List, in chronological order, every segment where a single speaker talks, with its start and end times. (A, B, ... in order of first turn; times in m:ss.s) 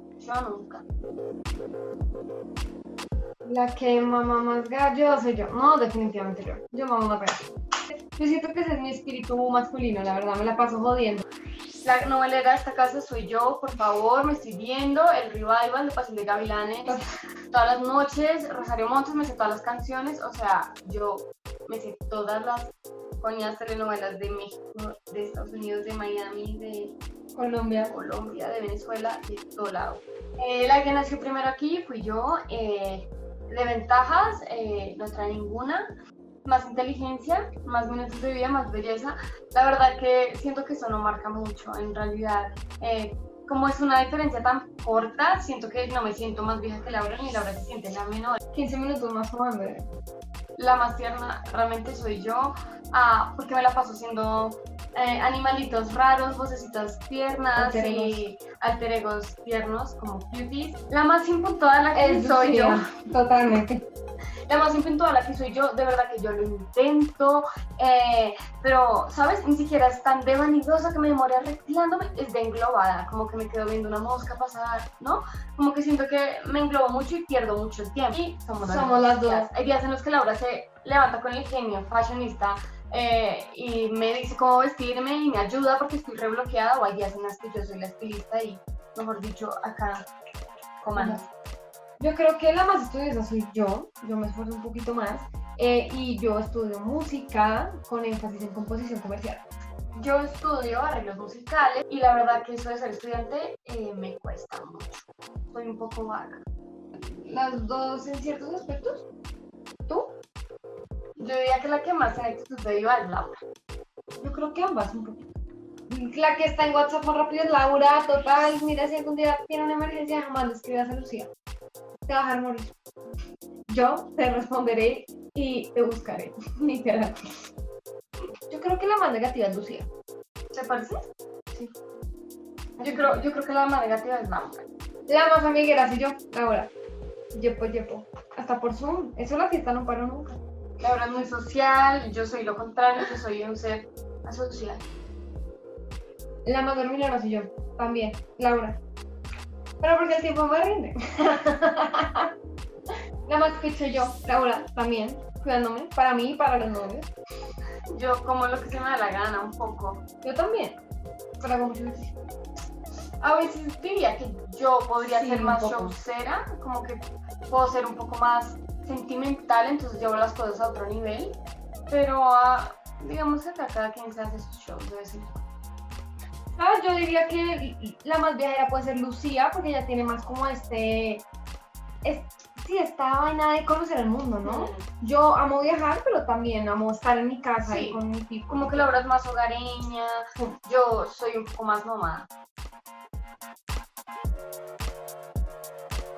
0:00.2-0:00.8 A
0:03.4-0:07.4 B
0:08.1-0:11.2 B
0:11.8-0:17.0 A
0:17.5-0:26.9 A
0:27.4-0:27.9 B
0:27.8-0:35.9 A
0:36.4-0:48.4 A
0:48.5-0:49.8 B
0:50.6-1:02.8 A
0:57.6-0:58.2 B
1:01.9-1:03.8 B
1:04.5-1:30.0 A
1:18.6-1:19.5 B
1:30.8-1:31.2 A
1:31.0-1:31.2 B
1:32.0-1:39.4 B
1:40.0-1:46.4 A
1:47.0-1:49.0 B
1:49.9-1:50.1 B
1:51.2-1:53.4 A
1:54.2-1:55.2 B
1:55.9-2:01.3 B
2:02.1-2:02.7 B
2:03.7-2:07.2 B
2:08.5-2:09.9 B
2:10.5-2:11.0 A
2:12.8-2:14.6 A
2:12.8-2:13.2 B
2:15.1-2:16.7 B
2:17.4-2:20.4 B
2:20.8-2:24.8 A
2:26.4-2:28.8 B
2:29.8-2:32.3 B
2:33.3-2:37.1 B
2:37.9-2:40.0 A
2:40.2-2:40.8 B
2:41.4-2:42.1 B
2:43.2-2:51.4 A
2:45.0-2:46.0 B
2:51.9-2:55.4 A
2:56.6-3:01.2 B
3:02.0-3:08.9 B
3:04.4-3:04.9 A
3:07.6-3:12.3 A